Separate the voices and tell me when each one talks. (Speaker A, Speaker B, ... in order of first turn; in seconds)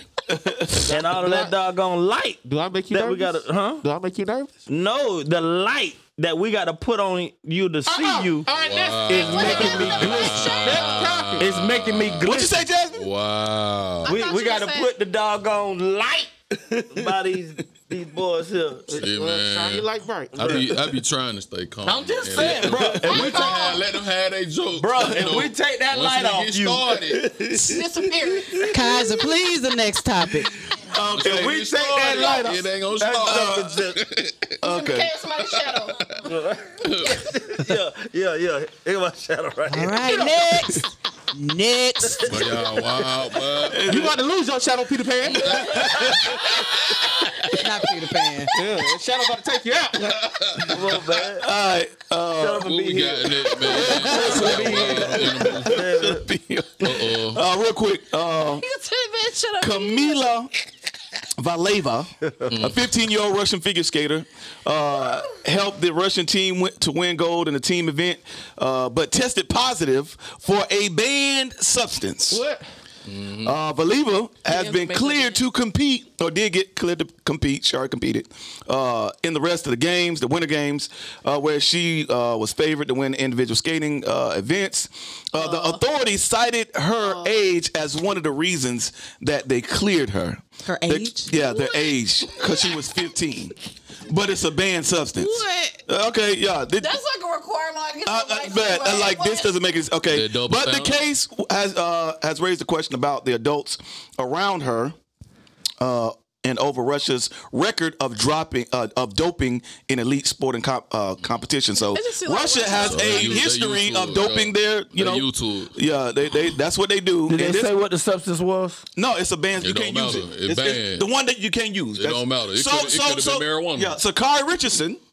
Speaker A: 0.3-0.8, 12.2-13.1, 22.4-23.1, 27.1-27.8, 30.9-32.4, 33.2-33.7, 34.6-35.1, 43.6-44.2, 45.5-46.5, 51.4-52.8, 53.9-58.6, 59.6-60.5, 61.4-72.4, 73.4-93.5, 94.1-97.0, 98.0-105.0, 105.8-117.7, 119.0-125.0
Speaker B: 0.8-1.5, 2.5-4.5, 7.9-11.5, 18.9-20.8, 43.9-46.2, 48.5-50.7, 72.3-72.6
Speaker C: 0.8-3.8, 4.7-8.5, 9.1-10.4, 11.4-12.6, 14.1-18.9, 21.8-23.6, 24.8-26.9, 31.2-34.0, 36.2-40.3, 42.1-43.1, 45.6-46.4, 50.6-51.5, 52.4-56.3, 117.3-118.8
Speaker D: 8.5-14.1, 19.0-27.4, 31.1-34.6, 36.0-36.2, 36.8-37.3, 42.3-44.1, 45.3-47.3, 50.0-51.0, 52.5-55.8, 56.8-57.4, 62.5-62.9, 73.1-73.5, 100.1-101.0, 112.7-115.7, 119.6-121.1, 122.0-124.0
Speaker E: 9.1-11.4, 14.0-14.9, 23.0-23.9, 27.5-29.1, 34.6-36.1, 58.5-60.4, 74.5-75.4, 85.4-85.8, 87.0-87.4, 91.3-92.9, 95.2-95.8, 96.8-99.6, 111.9-113.5
Speaker F: 28.7-30.6, 39.7-42.5, 47.6-48.6, 90.7-91.3